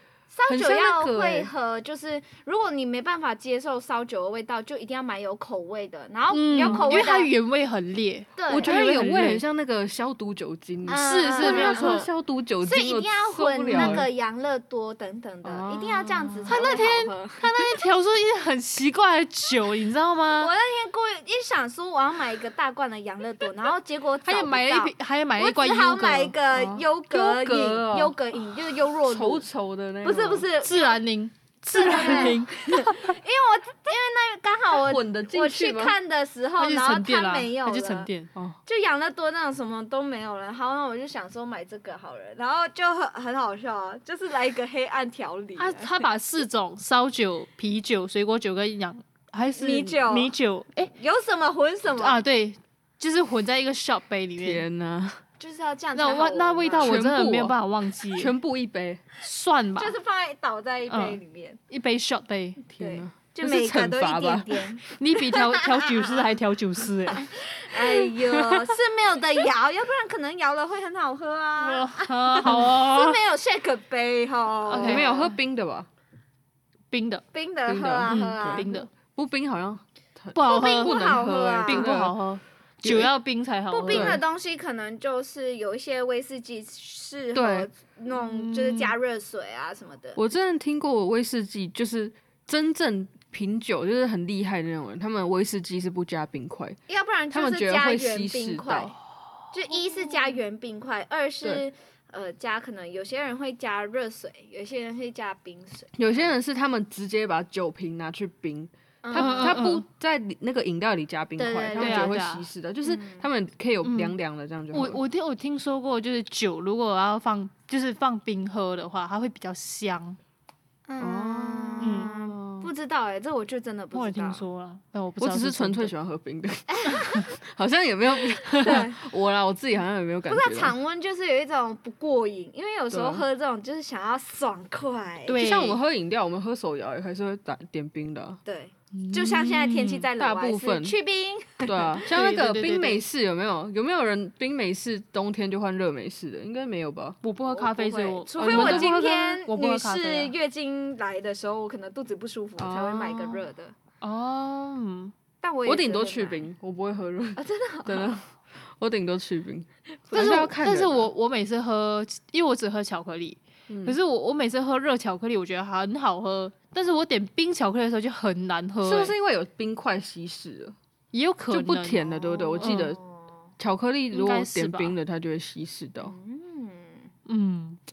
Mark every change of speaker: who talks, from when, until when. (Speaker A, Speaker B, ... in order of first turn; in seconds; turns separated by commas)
Speaker A: 0.3-7.3, Speaker B: 0.5-1.5, Speaker C: 6.3-9.4, Speaker B: 6.6-6.9, Speaker A: 8.3-8.8, Speaker B: 8.5-14.1, Speaker A: 10.9-12.1, Speaker C: 11.0-12.1, Speaker A: 12.6-17.7, Speaker C: 13.7-14.1, Speaker B: 15.4-16.9, Speaker C: 16.5-20.5, Speaker A: 20.3-29.4, Speaker C: 24.2-26.3, Speaker B: 26.5-28.1, Speaker B: 29.1-30.4, Speaker A: 30.0-31.0, Speaker C: 30.6-33.1, Speaker A: 31.7-38.1, Speaker B: 34.7-35.9, Speaker C: 36.6-38.3, Speaker A: 38.6-46.0, Speaker C: 45.6-50.9, Speaker A: 49.6-52.2, Speaker C: 52.0-54.6, Speaker B: 54.4-55.2, Speaker A: 55.4-56.9, Speaker C: 55.9-58.3, Speaker B: 56.8-57.6, Speaker B: 58.1-59.0, Speaker C: 59.2-59.9, Speaker A: 59.8-61.6, Speaker C: 60.9-62.6, Speaker B: 62.7-64.7, Speaker A: 62.8-66.2, Speaker C: 64.9-68.7, Speaker A: 67.1-75.3, Speaker C: 71.6-73.2, Speaker C: 74.7-75.2, Speaker B: 74.7-75.9, Speaker C: 76.9-77.2, Speaker A: 77.3-78.8, Speaker B: 77.7-82.1, Speaker C: 78.1-78.9, Speaker C: 80.3-84.2, Speaker A: 80.4-82.0, Speaker B: 82.8-83.1, Speaker A: 83.7-90.2, Speaker B: 83.9-84.2, Speaker B: 87.3-87.7, Speaker C: 88.1-88.9, Speaker B: 90.2-96.8, Speaker A: 96.9-98.9, Speaker B: 97.3-98.9, Speaker A: 99.5-106.3, Speaker B: 106.0-115.0, Speaker A: 109.0-109.6, Speaker C: 109.1-109.8, Speaker A: 111.4-112.2, Speaker C: 111.8-112.5, Speaker A: 112.8-113.3, Speaker C: 113.8-114.1, Speaker C: 114.7-120.2, Speaker A: 120.9-124.4, Speaker B: 121.0-122.7, Speaker C: 121.8-122.1, Speaker C: 123.9-125.9, Speaker B: 125.2-130.7, Speaker A: 126.7-127.2, Speaker C: 128.5-128.8, Speaker A: 128.6-129.0, Speaker A: 130.3-135.4, Speaker B: 132.9-133.2, Speaker C: 135.3-135.8, Speaker B: 135.3-138.4, Speaker A: 138.4-142.0, Speaker C: 138.9-140.1, Speaker B: 140.2-140.9, Speaker B: 141.6-147.2, Speaker C: 142.1-143.0, Speaker C: 147.2-150.3, Speaker A: 147.4-153.8, Speaker B: 148.4-149.4, Speaker B: 152.6-153.4, Speaker C: 154.0-155.1, Speaker A: 155.4-156.5, Speaker B: 155.7-161.1, Speaker A: 157.3-158.1, Speaker A: 160.1-160.5, Speaker C: 160.1-169.1, Speaker B: 163.7-164.0, Speaker B: 168.8-170.8, Speaker C: 171.1-172.9, Speaker B: 171.5-173.0, Speaker A: 172.2-173.5, Speaker B: 173.6-176.1, Speaker C: 174.1-174.9, Speaker A: 176.0-177.1, Speaker C: 177.3-177.8